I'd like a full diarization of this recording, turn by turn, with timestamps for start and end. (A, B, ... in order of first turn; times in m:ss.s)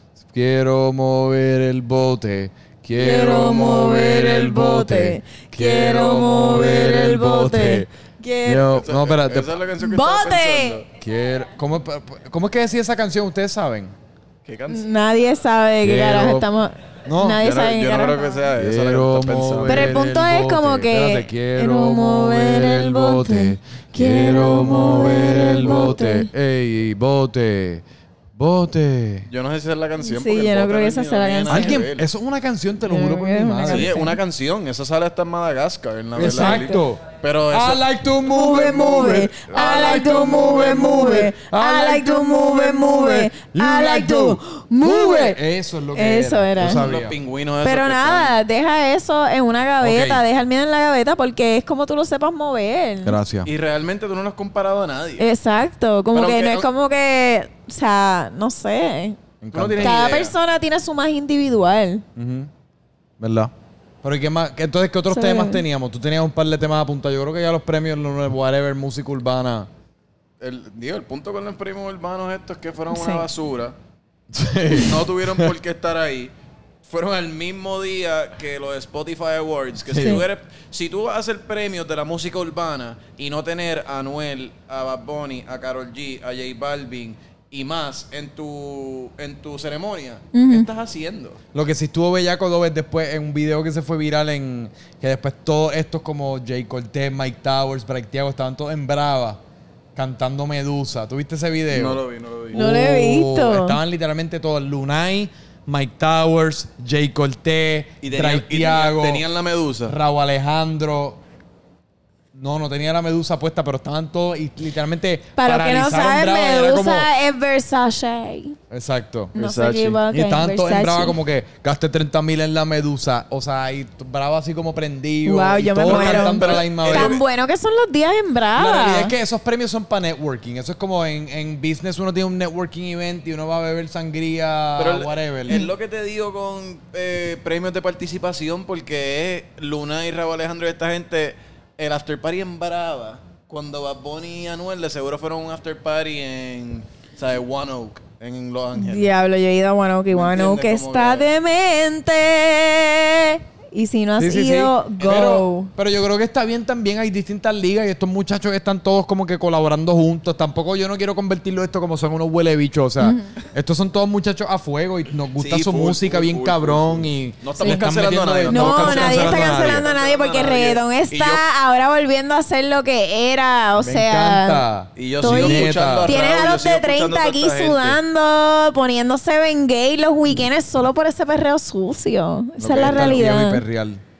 0:00.3-0:07.9 A
0:03.0-0:03.7 B
0:03.0-0:08.7 C
0:08.4-0:09.6 A
0:08.7-0:10.9 B
0:09.8-0:10.8 C
0:11.0-0:13.9 A
0:14.4-0:14.9 B
0:14.7-0:18.3 C
0:15.8-0:16.5 A
0:17.1-0:17.4 A
0:17.4-0:20.0 B
0:18.6-0:27.8 A
0:19.7-0:26.3 C
0:28.4-0:29.3 A
0:29.3-0:32.1 B
0:30.0-0:31.8 C
0:31.5-0:33.9 A
0:32.9-0:34.2 C
0:33.7-0:37.8 B
0:36.2-0:47.2 A
0:36.2-0:36.8 C
0:38.3-0:45.4 C
0:45.9-0:46.8 C
0:46.6-0:48.3 B
0:47.6-0:53.2 C
0:49.8-0:50.2 A
0:53.0-0:53.5 A
0:53.4-0:55.3 B
0:55.2-0:59.2 C
0:56.1-0:56.7 B
0:59.4-1:00.0 A
0:59.5-1:00.4 B
0:59.8-1:02.0 C
1:02.2-1:02.5 A
1:03.2-1:03.5 A
1:04.0-1:09.7 A
1:05.1-1:05.6 C
1:10.4-1:13.8 B
1:12.9-1:13.3 C
1:14.3-1:15.5 A
1:14.7-1:16.3 B
1:16.9-1:31.4 B
1:19.9-1:20.2 A
1:20.0-1:20.2 C
1:30.3-1:30.7 C
1:31.5-1:39.4 A
1:40.0-1:42.0 A
1:41.7-1:42.6 B
1:42.5-1:43.8 C
1:42.5-1:49.2 A
1:48.0-1:50.0 B
1:49.9-1:51.2 A
1:52.3-1:57.1 A
1:55.4-1:58.6 C
1:58.7-1:59.3 A
1:59.4-2:00.0 B
1:59.4-2:01.2 C
2:00.1-2:07.2 A
2:05.2-2:09.1 C
2:05.8-2:07.2 B
2:08.6-2:15.7 A
2:14.8-2:29.1 B
2:28.8-2:35.7 C
2:30.1-2:31.3 B
2:34.2-2:49.8 A
2:35.0-2:35.4 B
2:43.0-2:43.3 C
2:45.4-2:51.4 B
2:48.5-2:54.6 C
2:53.8-2:56.1 A
2:55.0-2:58.0 B
2:55.2-3:03.6 C
3:02.6-3:04.0 A